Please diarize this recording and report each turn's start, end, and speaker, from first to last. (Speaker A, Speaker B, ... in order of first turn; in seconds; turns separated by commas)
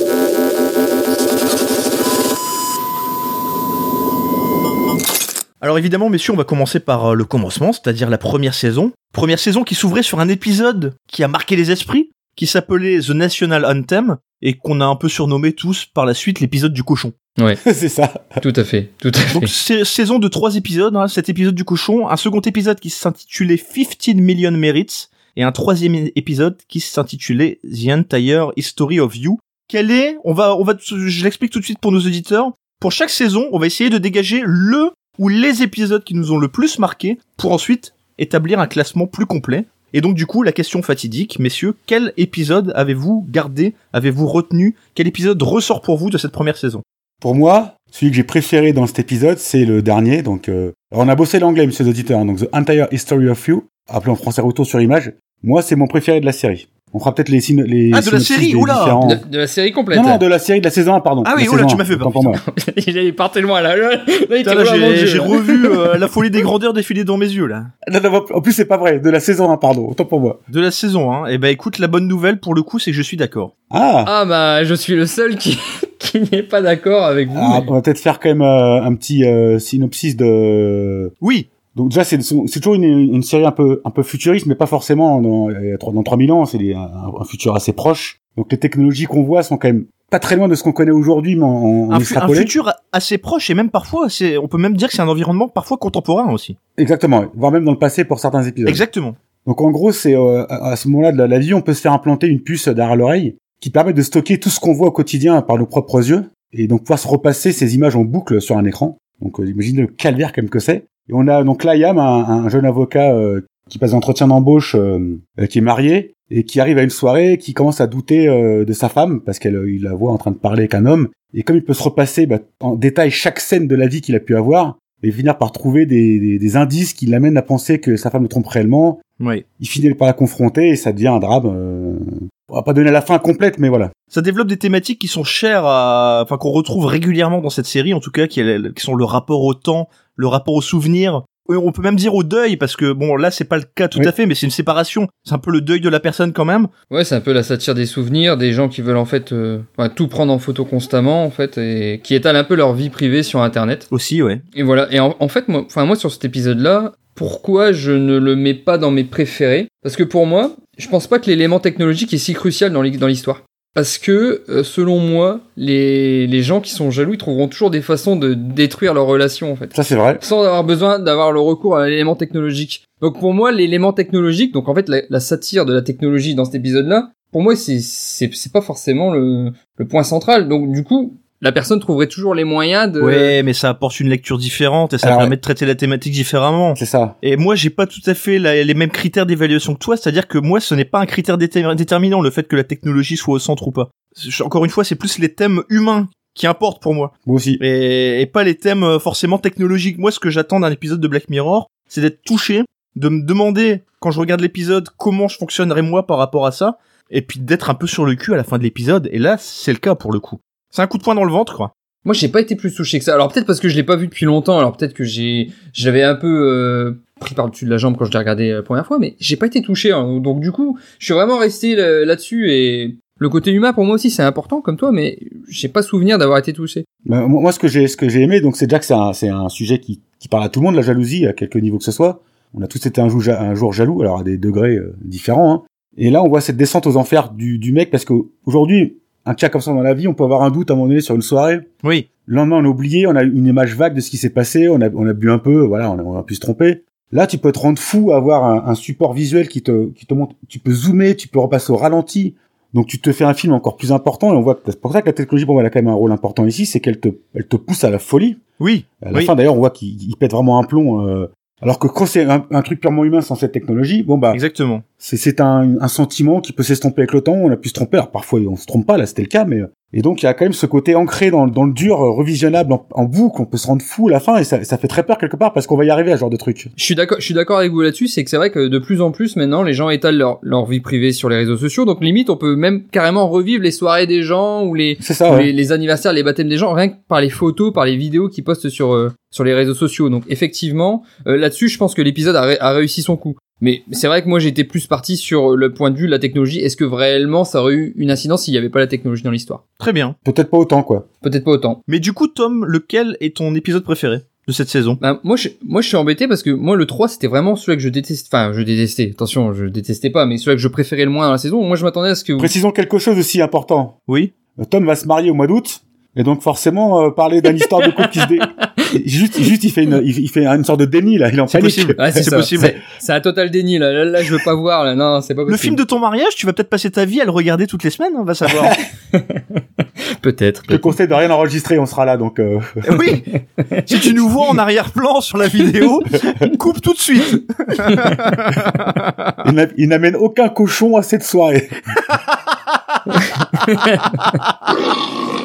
Speaker A: 5.6-17.1, Speaker B: 17.6-18.4, Speaker C: 18.4-19.5, Speaker A: 19.3-46.8, Speaker B: 47.2-59.2, Speaker A: 57.9-59.0, Speaker C: 59.0-60.2, Speaker B: 59.9-62.4, Speaker A: 61.2-62.4, Speaker C: 62.3-65.8, Speaker A: 64.4-67.7, Speaker B: 67.8-70.4, Speaker A: 70.5-73.5, Speaker B: 73.7-74.1, Speaker C: 74.0-77.7, Speaker B: 77.3-81.1, Speaker A: 81.2-81.5, Speaker B: 81.8-92.5, Speaker A: 91.9-96.6, Speaker B: 96.8-98.8, Speaker A: 98.7-99.2, Speaker B: 99.4-129.0, Speaker B: 129.6-133.9, Speaker A: 134.1-146.7, Speaker C: 146.9-153.9, Speaker A: 153.9-154.4, Speaker C: 154.6-183.3, Speaker B: 169.7-170.2, Speaker A: 183.0-211.7, Speaker B: 185.0-185.3, Speaker B: 186.8-187.2, Speaker B: 197.2-197.6, Speaker C: 212.1-226.9, Speaker B: 227.1-241.7, Speaker B: 242.2-258.4, Speaker A: 258.6-259.3, Speaker B: 259.0-264.4, Speaker A: 264.3-264.8, Speaker B: 265.0-276.7, Speaker C: 276.8-299.6, Speaker B: 285.0-285.5, Speaker A: 299.8-300.1, Speaker B: 300.2-301.1, Speaker C: 301.2-301.8, Speaker A: 301.9-305.0, Speaker C: 305.0-312.5, Speaker B: 312.4-314.0, Speaker A: 314.1-314.3, Speaker B: 314.6-322.1, Speaker C: 317.4-318.9, Speaker A: 321.5-322.8, Speaker C: 322.0-325.8, Speaker A: 325.5-328.8, Speaker C: 329.1-330.9, Speaker B: 330.7-332.9, Speaker A: 332.8-333.3, Speaker C: 333.6-334.0, Speaker A: 333.9-339.0, Speaker C: 337.9-338.4, Speaker B: 339.4-341.8, Speaker C: 343.2-344.3